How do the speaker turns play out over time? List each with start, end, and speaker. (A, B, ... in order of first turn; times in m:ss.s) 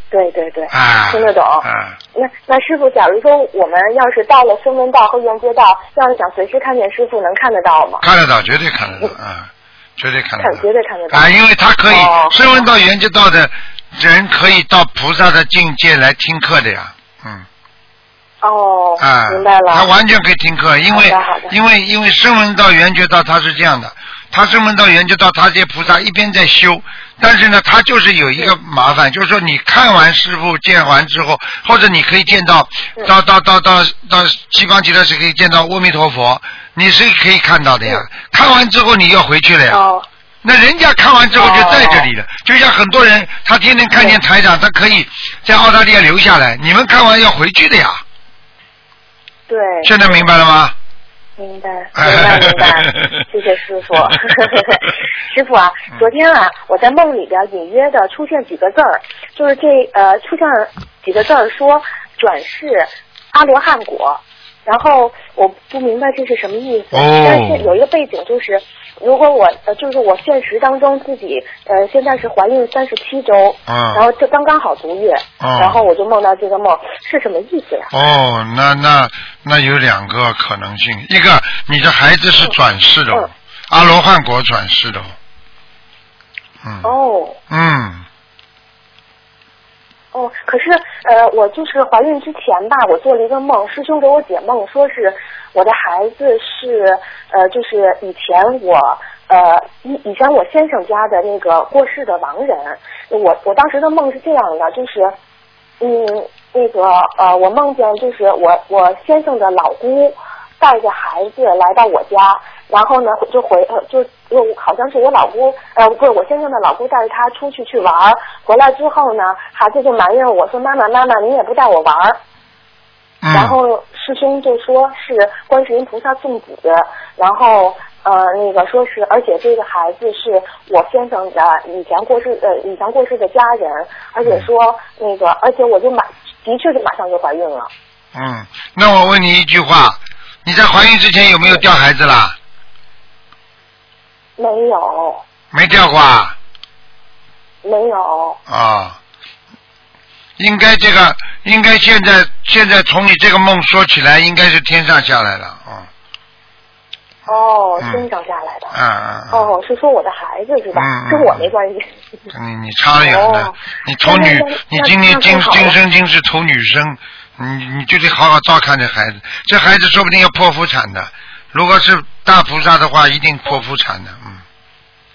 0:00.1-0:08.0 A
0:00.7-0:02.0 B
0:08.0-0:17.4 B
0:10.4-0:11.3 A
0:11.9-0:12.7 A
0:18.4-0:19.9 A
0:19.0-0:39.8 B
0:20.9-0:21.5 A
0:39.7-0:40.0 A
0:40.4-0:48.0 B
0:41.4-0:42.1 A
0:49.5-0:50.3 A
0:49.8-0:50.7 B
0:51.4-1:17.9 A
0:52.0-0:53.2 B
1:06.9-1:07.7 B
1:13.7-1:14.0 B
1:15.4-1:15.8 B
1:17.9-1:25.1 B
1:26.6-1:26.9 B
1:26.8-1:27.4 A
1:27.5-1:28.0 B
1:30.1-1:45.1 A
1:45.8-2:02.2 A
2:03.2-2:03.6 B
2:03.3-2:17.7 A
2:18.1-2:22.4 B
2:24.4-2:25.2 A
2:25.5-2:26.4 B
2:27.6-2:28.4 A
2:28.5-2:29.0 B
2:30.4-2:35.9 B
2:37.3-2:38.7 A
2:38.7-2:39.5 B
2:39.3-2:41.9 A
2:40.7-2:41.5 B
2:42.3-2:54.4 B
2:43.0-2:45.8 A